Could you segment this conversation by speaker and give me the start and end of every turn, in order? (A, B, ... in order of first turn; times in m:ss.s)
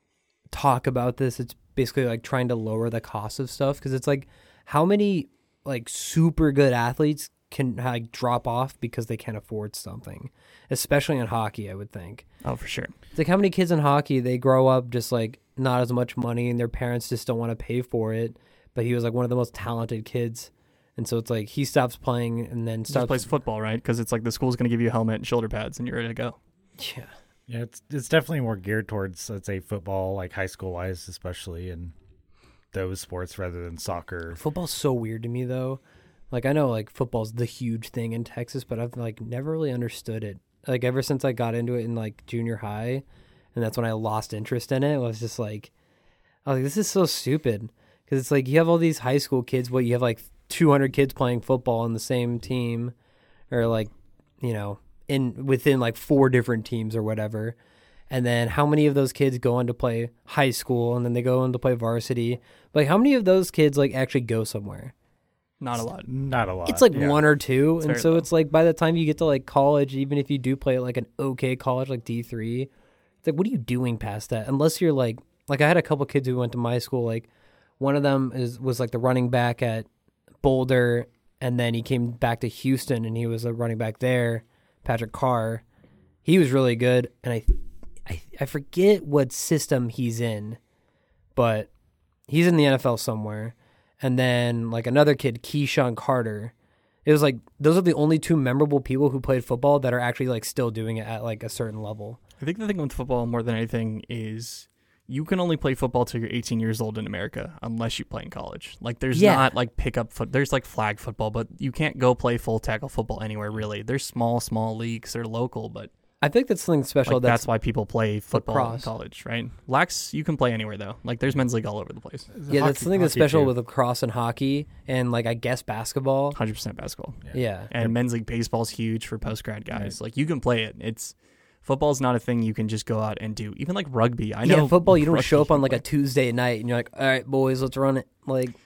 0:00.5-0:12.2 A
0:12.4-0:12.9 B
0:13.1-0:23.3 A
0:22.9-0:26.4 B
0:26.8-0:27.1 A
0:27.5-0:31.9 C
0:32.7-0:34.4 C
0:34.4-0:45.7 A
0:46.4-0:52.9 A
0:53.5-0:57.6 A
0:58.1-1:04.9 A
1:05.6-1:06.1 B
1:06.1-1:07.3 C
1:06.6-1:12.7 A
1:07.8-1:08.2 B
1:13.2-1:19.9 A
1:20.4-1:25.6 A
1:26.2-1:30.6 A
1:31.3-1:31.7 A
1:32.3-1:36.5 A
1:37.0-1:42.2 A
1:42.4-1:55.9 B
1:49.1-1:49.5 A
1:56.2-1:57.5 A
1:57.0-2:02.3 B
1:58.3-1:58.9 A
2:02.3-2:03.5 C
2:02.5-2:06.4 A
2:06.3-2:15.8 B
2:07.2-2:07.9 C
2:07.3-2:07.7 A
2:14.4-2:18.6 A